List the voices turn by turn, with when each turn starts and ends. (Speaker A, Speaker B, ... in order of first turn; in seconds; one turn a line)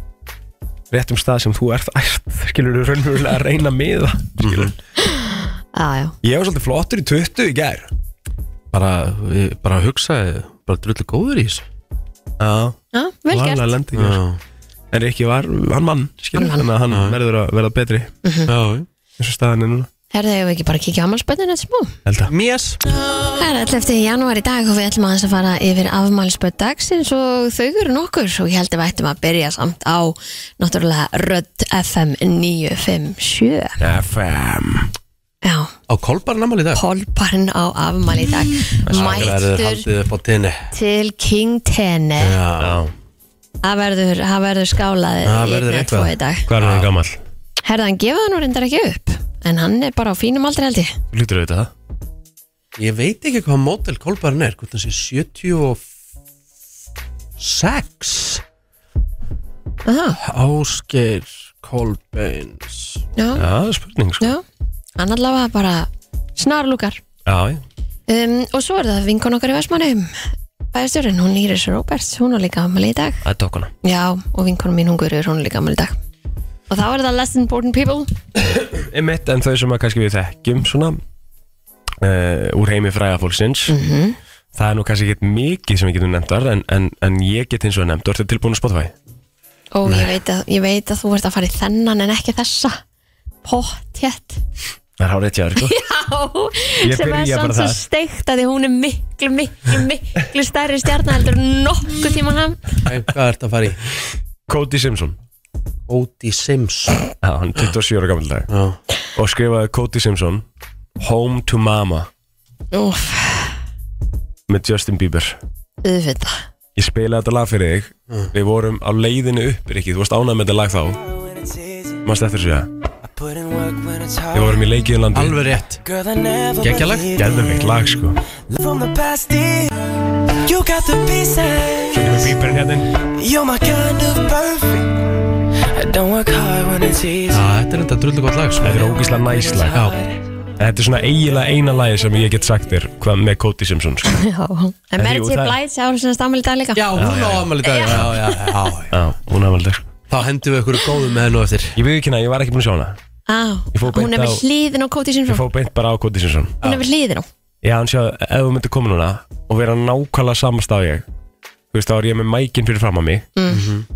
Speaker A: 0.9-4.7
Speaker B: 4.4-4.7
Speaker C: 5.0-6.2
Speaker A: 6.2-7.9
Speaker B: 8.7-11.6
Speaker A: 12.4-12.8
Speaker C: 12.9-13.7
Speaker A: 13.3-14.2
Speaker B: 13.9-14.4
Speaker A: 14.9-18.1
Speaker C: 16.4-16.7
Speaker B: 16.9-17.2
Speaker C: 18.2-18.5
Speaker B: 18.5-18.9
Speaker A: 19.2-19.9
Speaker C: 20.1-21.9
Speaker A: 22.0-22.3
Speaker B: 22.3-22.8
Speaker C: 23.3-33.8
Speaker A: 33.8-34.9
Speaker C: 35.4-35.7
Speaker B: 35.9-36.8
Speaker C: 36.7-39.9
Speaker A: 38.9-39.4
Speaker B: 38.9-40.7
Speaker C: 40.7-42.4
Speaker B: 42.2-42.8
Speaker A: 42.6-42.9
Speaker C: 43.6-46.5
Speaker B: 45.2-46.9
Speaker A: 46.5-47.2
Speaker C: 47.6-51.0
Speaker A: 51.1-51.7
Speaker B: 52.8-55.8
Speaker B: 57.4-58.4
Speaker C: 59.9-60.2
Speaker B: 60.2-63.0
Speaker C: 63.1-63.4
Speaker A: 63.3-64.3
Speaker C: 65.0-67.0
Speaker A: 67.2-67.6
Speaker C: 68.1-70.1
Speaker C: 70.7-73.2
Speaker A: 73.2-73.7
Speaker C: 73.8-76.0
Speaker C: 76.7-78.1
Speaker A: 78.6-81.0
Speaker A: 82.0-83.7
Speaker C: 83.7-84.2
Speaker A: 84.5-88.9
Speaker C: 89.7-92.8
Speaker C: 93.4-94.4
Speaker A: 95.0-95.8
Speaker C: 95.6-102.7
Speaker A: 96.8-97.8
Speaker B: 102.8-103.8
Speaker A: 104.5-105.2
Speaker B: 105.9-107.0
Speaker A: 107.2-108.5
Speaker B: 108.5-108.8
Speaker A: 109.2-110.4
Speaker A: 111.0-112.1
Speaker C: 112.7-113.6
Speaker A: 114.5-115.4
Speaker C: 115.8-116.4
Speaker A: 116.8-121.0
Speaker D: 121.3-122.0
Speaker A: 122.0-122.7
Speaker D: 123.1-124.6
Speaker A: 124.3-125.4
Speaker B: 125.1-125.8
Speaker D: 125.8-127.7
Speaker B: 126.6-127.2
Speaker A: 127.1-128.2
Speaker D: 128.5-129.7
Speaker D: 130.4-132.3
Speaker A: 131.9-132.9
Speaker D: 133.1-135.1
Speaker D: 135.7-137.4
Speaker B: 137.3-138.8
Speaker A: 138.6-139.8
Speaker D: 139.0-140.2
Speaker A: 140.6-144.1
Speaker C: 144.1-146.8
Speaker A: 145.0-145.6
Speaker B: 146.7-148.9
Speaker A: 146.9-148.1
Speaker C: 147.6-148.4
Speaker A: 148.9-149.9
Speaker B: 150.1-151.8
Speaker A: 151.7-153.0
Speaker C: 153.3-155.4
Speaker A: 153.7-154.4
Speaker A: 155.3-156.6
Speaker C: 156.6-157.3
Speaker A: 157.6-161.1
Speaker A: 161.7-163.3
Speaker C: 163.3-163.6
Speaker B: 163.5-163.8